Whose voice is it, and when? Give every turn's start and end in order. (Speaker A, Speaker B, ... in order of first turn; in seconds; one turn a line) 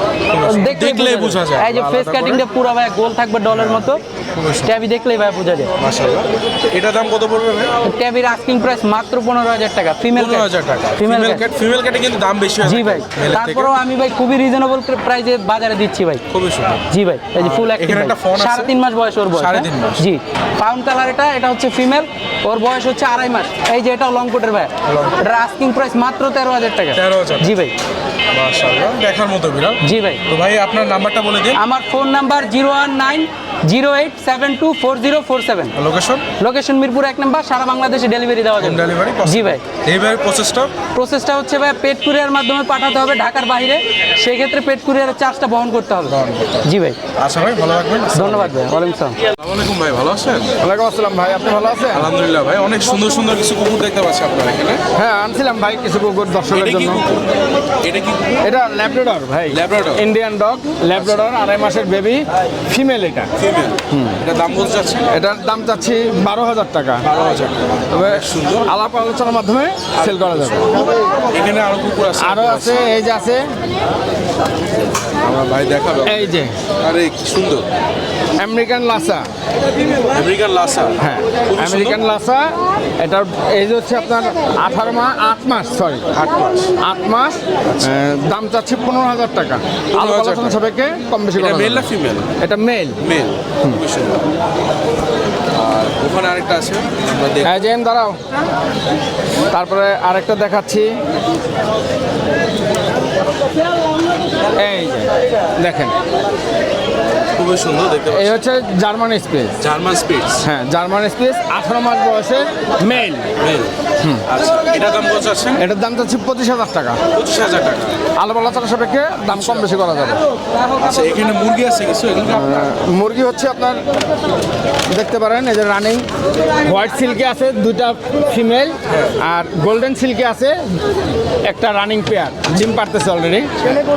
Speaker A: 0.3-2.4
Speaker B: 0.5-4.0
Speaker A: 3.5-4.8
Speaker B: 4.6-5.7
Speaker A: 5.8-7.7
Speaker B: 7.8-11.4
Speaker A: 10.2-13.8
Speaker B: 12.6-16.2
Speaker A: 16.3-16.9
Speaker B: 16.9-27.7
Speaker A: 17.4-18.7
Speaker A: 19.3-20.0
Speaker A: 24.9-25.2
Speaker A: 26.9-27.6
Speaker A: 28.3-31.6
Speaker B: 29.8-30.2
Speaker B: 31.6-35.7
Speaker A: 35.8-36.2
Speaker B: 36.4-39.6
Speaker A: 38.6-40.7
Speaker B: 41.0-47.0
Speaker A: 46.1-46.6
Speaker A: 47.2-48.6
Speaker B: 48.1-49.2
Speaker A: 49.4-50.5
Speaker C: 50.6-52.1
Speaker A: 51.9-54.8
Speaker C: 55.0-57.1
Speaker A: 56.5-57.3
Speaker A: 57.8-58.4
Speaker C: 58.4-63.3
Speaker A: 59.5-60.0
Speaker A: 61.0-61.3
Speaker A: 63.4-65.1
Speaker C: 63.9-64.2
Speaker C: 65.1-67.1
Speaker A: 67.0-68.7
Speaker C: 67.9-70.8
Speaker A: 70.0-70.8
Speaker A: 71.3-72.9
Speaker C: 72.2-73.5
Speaker A: 75.2-77.7
Speaker C: 76.0-76.5
Speaker C: 78.4-79.3
Speaker A: 80.1-81.0
Speaker C: 81.0-86.0
Speaker A: 81.5-82.0
Speaker A: 86.2-86.7
Speaker C: 86.8-91.9
Speaker A: 89.9-90.6
Speaker A: 91.4-92.3
Speaker C: 92.4-93.0
Speaker A: 93.0-94.2
Speaker A: 95.5-97.6
Speaker C: 97.4-98.2
Speaker C: 99.5-100.9
Speaker C: 104.6-105.9
Speaker A: 107.4-108.4
Speaker C: 108.1-109.6
Speaker A: 109.6-110.4
Speaker C: 110.4-113.3
Speaker A: 112.9-113.7
Speaker A: 114.3-115.6
Speaker C: 115.6-117.0
Speaker A: 117.1-118.0
Speaker C: 118.2-120.2
Speaker A: 119.3-119.7
Speaker A: 120.8-122.7
Speaker C: 122.3-123.8
Speaker C: 124.9-126.0
Speaker C: 126.6-130.7
Speaker A: 128.9-129.1
Speaker C: 131.5-133.5